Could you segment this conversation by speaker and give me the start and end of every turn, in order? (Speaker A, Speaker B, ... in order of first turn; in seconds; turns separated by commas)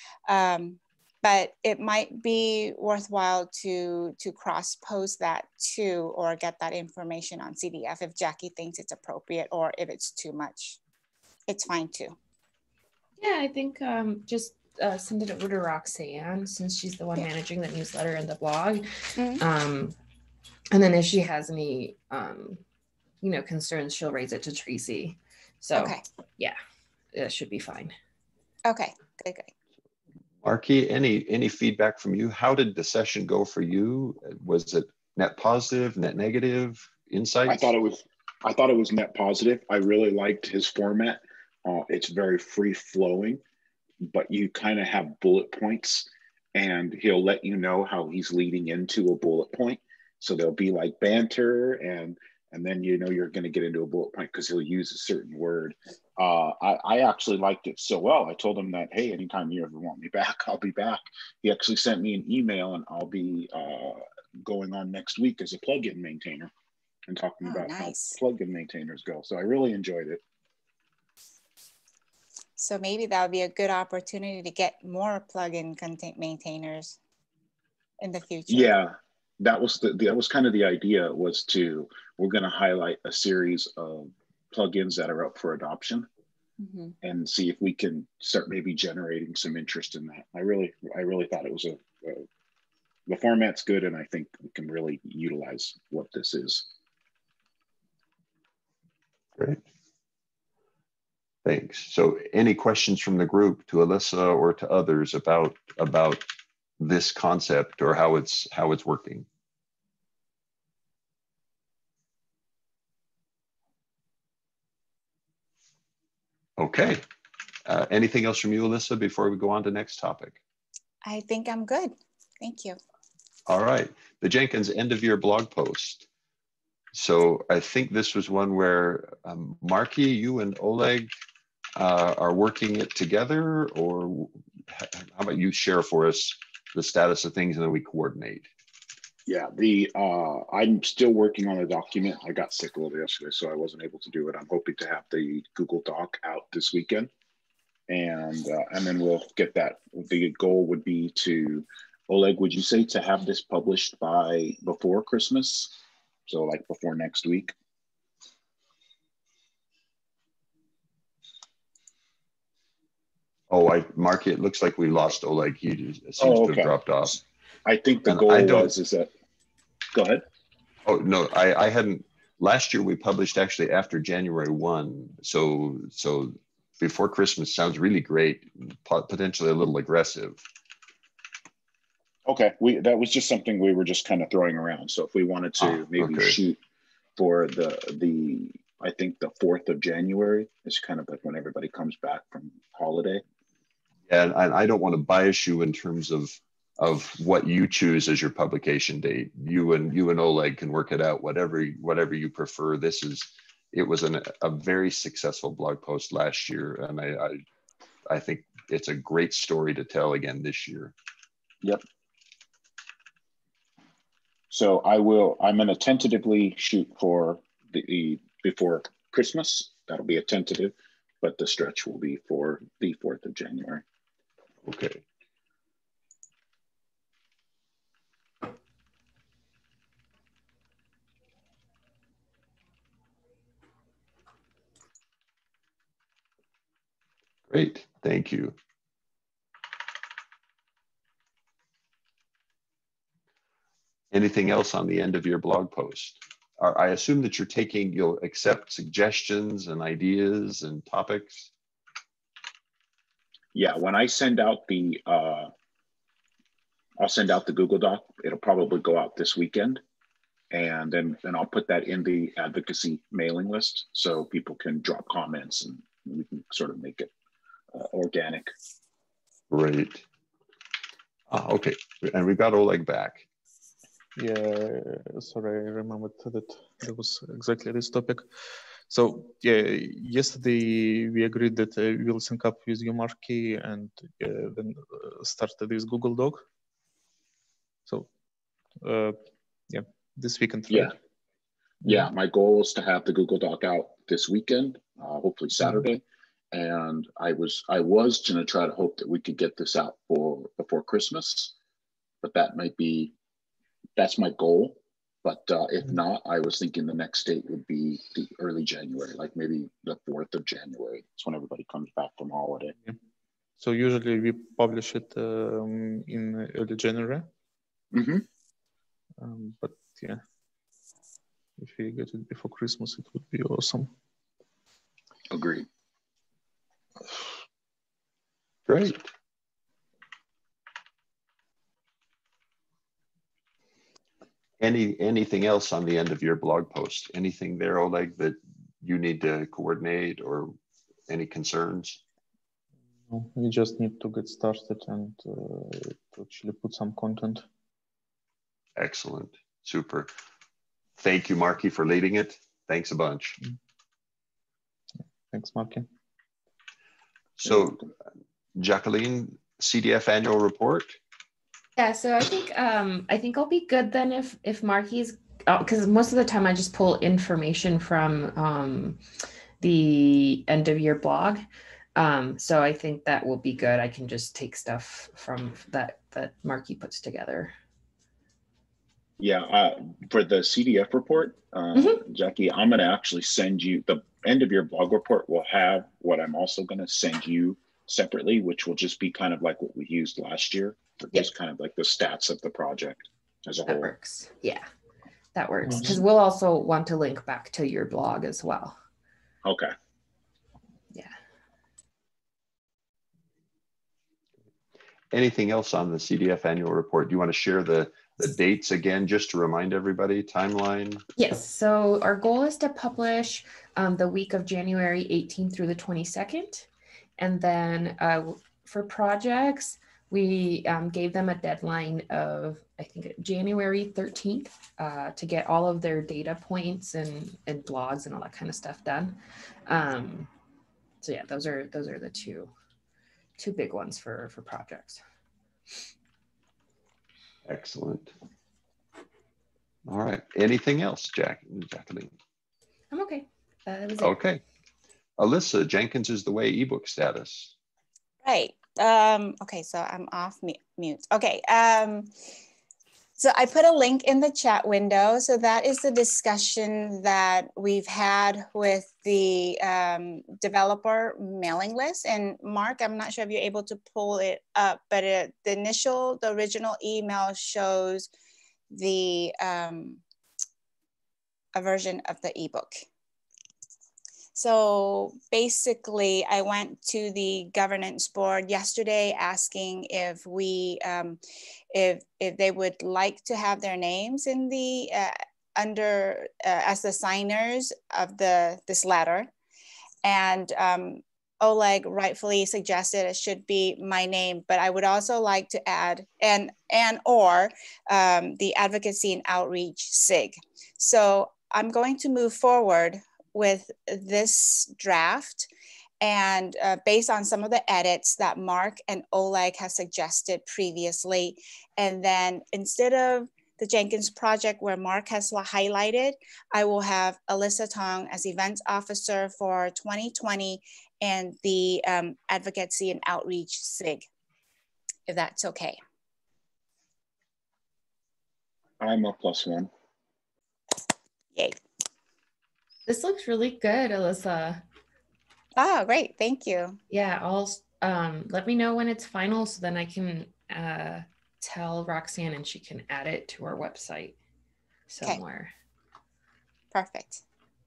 Speaker A: 0.3-10.8, Speaker A: 11.5-12.2, Speaker B: 13.2-18.9, Speaker A: 19.2-19.4, Speaker B: 19.4-19.9, Speaker B: 20.7-22.6, Speaker B: 23.2-26.6, Speaker A: 25.8-26.0, Speaker B: 27.1-27.9, Speaker A: 28.6-29.5, Speaker C: 30.4-37.7, Speaker D: 37.5-43.4, Speaker D: 44.0-66.5, Speaker D: 67.1-70.2, Speaker A: 67.4-68.2, Speaker A: 72.6-77.0, Speaker A: 78.0-78.7, Speaker D: 78.5-86.1, Speaker A: 86.6-86.9, Speaker D: 87.0-92.2, Speaker D: 93.1-96.7, Speaker C: 101.4-106.2, Speaker C: 106.8-109.2, Speaker C: 116.6-117.0, Speaker C: 117.7-120.4, Speaker A: 121.0-122.8, Speaker C: 123.5-126.1, Speaker C: 126.9-131.1, Speaker C: 131.8-138.5, Speaker D: 139.3-147.1, Speaker D: 147.9-155.7, Speaker D: 156.2-157.5, Speaker C: 163.5-167.2, Speaker D: 166.2-166.7, Speaker D: 167.7-169.1, Speaker C: 168.1-168.7, Speaker D: 169.9-170.2, Speaker C: 170.8-180.4, Speaker D: 182.3-186.6, Speaker C: 185.6-186.3, Speaker D: 187.2-193.2, Speaker C: 194.1-207.4, Speaker C: 208.1-210.9, Speaker D: 214.5-223.8, Speaker C: 224.6-225.0, Speaker C: 237.5-238.5, Speaker C: 244.1-251.5, Speaker D: 253.5-255.5, Speaker D: 257.0-259.8, Speaker D: 260.5-267.1, Speaker D: 267.7-268.5, Speaker C: 269.5-270.0, Speaker C: 271.3-273.2, Speaker E: 274.1-278.2, Speaker E: 278.9-286.5, Speaker E: 287.9-288.1, Speaker E: 288.8-289.1, Speaker E: 289.7-290.9, Speaker E: 291.8-292.1, Speaker D: 291.9-296.0, Speaker D: 296.5-301.5, Speaker D: 302.2-303.1, Speaker D: 304.0-312.7, Speaker E: 313.6-317.3, Speaker D: 317.9-318.2, Speaker E: 319.2-320.2, Speaker E: 321.6-323.9, Speaker D: 325.3-325.7, Speaker C: 328.7-329.1, Speaker C: 334.6-340.5, Speaker C: 341.1-342.0, Speaker E: 343.1-347.4, Speaker C: 348.8-350.1, Speaker C: 351.0-353.4, Speaker E: 355.3-355.9, Speaker C: 357.4-357.9, Speaker C: 358.6-361.0, Speaker B: 361.8-369.0, Speaker B: 369.6-371.4, Speaker B: 371.9-377.5, Speaker D: 379.2-393.9, Speaker B: 393.7-394.6, Speaker B: 395.3-398.8, Speaker E: 395.7-396.0, Speaker D: 399.4-399.7, Speaker C: 405.1-411.0, Speaker B: 411.1-430.3, Speaker B: 431.0-432.5, Speaker B: 433.4-435.0, Speaker C: 437.4-438.1, Speaker C: 439.9-442.1, Speaker B: 442.9-444.1, Speaker C: 444.0-444.4, Speaker C: 445.2-447.5, Speaker A: 448.2-452.1, Speaker A: 453.2-468.1, Speaker A: 468.7-470.0, Speaker A: 471.5-472.9, Speaker A: 474.3-481.2, Speaker A: 481.7-489.3, Speaker A: 490.0-505.5, Speaker A: 506.0-524.0, Speaker A: 525.1-525.8, Speaker D: 528.8-529.7, Speaker B: 532.9-534.6, Speaker A: 535.6-536.8, Speaker B: 536.9-544.2, Speaker B: 544.9-545.5, Speaker A: 546.7-547.2